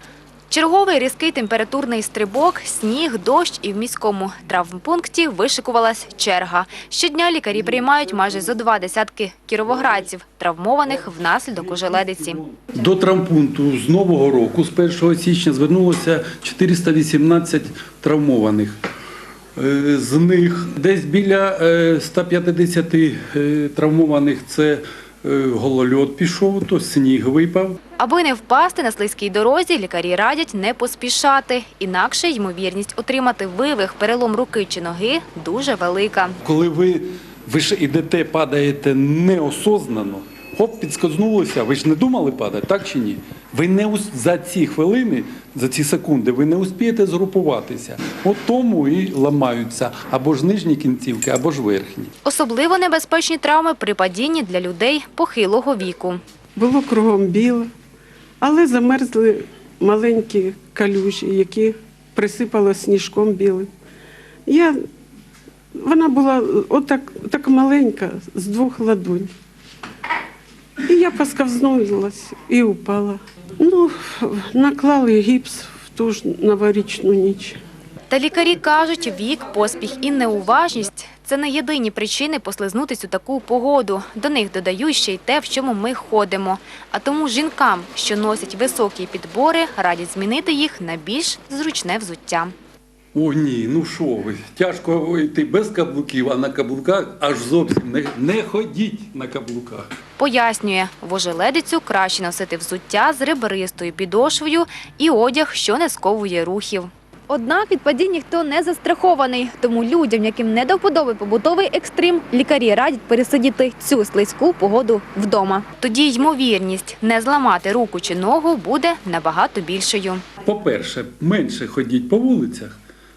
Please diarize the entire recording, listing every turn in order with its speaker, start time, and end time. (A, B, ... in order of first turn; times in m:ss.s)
0:00.5-0:12.4 A
0:11.2-0:18.8 B
0:19.6-0:27.8 B
0:28.0-0:36.4 A
0:36.4-0:52.1 B
0:52.2-0:56.2 A
0:56.6-0:57.7 C
0:58.4-1:03.7 C
1:04.4-1:04.8 C
1:05.8-1:09.3 C
1:10.8-1:17.6 C
1:18.1-1:32.5 A
1:33.1-1:39.8 B
1:40.2-2:00.2 A
2:00.4-2:02.8 B